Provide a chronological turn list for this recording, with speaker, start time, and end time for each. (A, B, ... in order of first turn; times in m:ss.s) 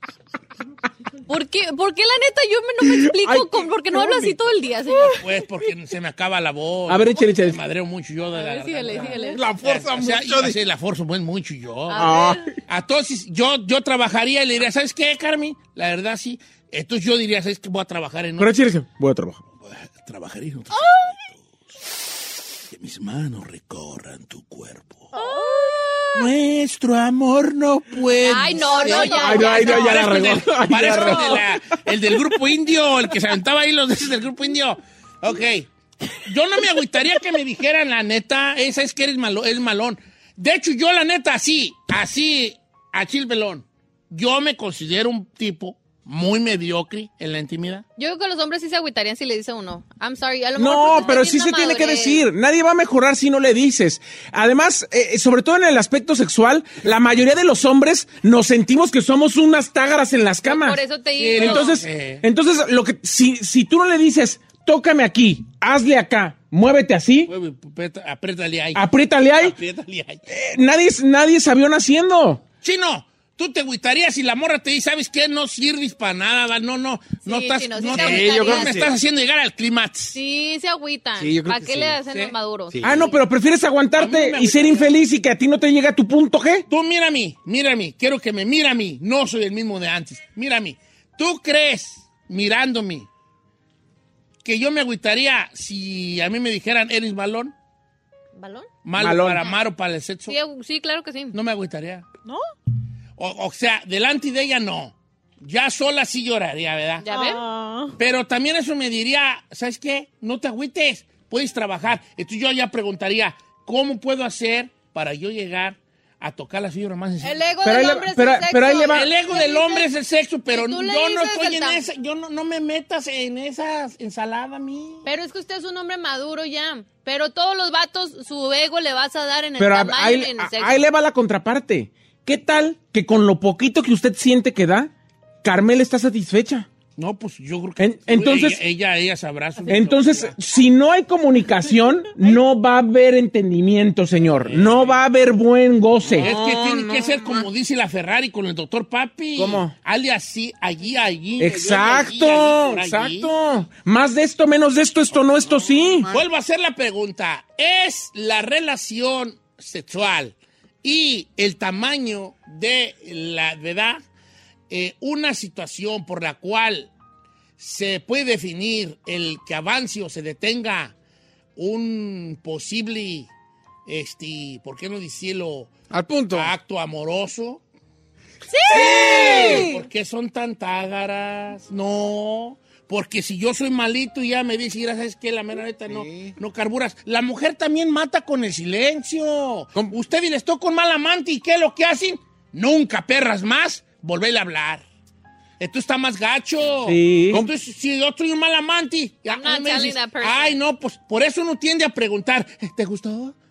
0:01.3-0:05.2 A
0:02.8-0:04.3 B
0:05.1-0:18.6 C
0:06.9-0:07.6 B
0:08.3-0:09.4 A
0:09.3-0:10.6 D
0:11.9-0:12.5 A
0:12.0-0:12.5 B
0:18.4-0:19.4 B
0:19.6-0:21.5 C
0:20.8-0:21.1 E
0:22.7-0:25.1 C
0:25.1-0:26.0 E
0:25.1-0:26.1 A
0:26.1-0:35.7 C
0:28.2-0:30.1 A
0:28.9-0:31.6 B
0:30.9-0:31.4 A
0:36.2-0:47.8 C
0:48.0-0:52.2 A
0:50.6-1:00.8 B
1:00.4-1:01.7 A
1:01.2-1:02.2 C
1:01.3-1:07.3 B
1:07.3-1:10.2 C
1:08.7-1:09.6 B
1:10.3-1:12.4 B
1:12.6-1:20.2 C
1:17.2-1:18.9 A
1:17.9-1:18.9 D
1:20.1-1:22.7 A
1:21.2-1:22.0 D
1:22.1-1:22.3 C
1:22.7-1:23.2 D
1:22.8-1:26.6 B
1:24.0-1:24.9 C
1:26.7-1:33.1 C
1:34.4-1:37.5 C
1:38.3-1:38.7 A
1:38.8-1:40.4 C
1:39.0-1:39.5 B
1:40.3-1:41.3 A
1:41.3-1:42.0 C
1:43.2-1:47.1 C
1:47.0-1:47.4 A
1:47.1-1:48.0 E
1:48.0-1:57.4 C
1:57.2-1:59.9 A
1:57.6-1:59.1 B
1:58.9-2:05.1 C
2:00.5-2:01.9 A
2:05.0-2:10.8 A
2:09.6-2:14.9 B
2:15.4-2:16.7 B
2:17.0-2:20.4 C
2:17.8-2:18.6 B
2:19.7-2:26.4 B
2:24.4-2:24.9 C
2:26.0-2:27.5 D
2:26.2-2:33.3 C
2:29.4-2:29.7 B
2:31.4-2:36.1 B
2:35.5-2:36.2 D
2:36.1-2:44.0 C
2:44.7-2:46.9 C
2:47.6-2:50.9 C
2:51.6-2:53.3 C
2:53.8-2:55.7 C
2:55.9-2:56.5 D
2:56.3-2:57.6 C
2:58.5-2:59.6 A
2:58.7-2:59.6 E
2:58.7-2:59.7 D
2:58.7-3:14.8 C
3:05.9-3:06.3 D
3:15.6-3:23.4 C
3:16.8-3:17.4 B
3:19.3-3:20.6 A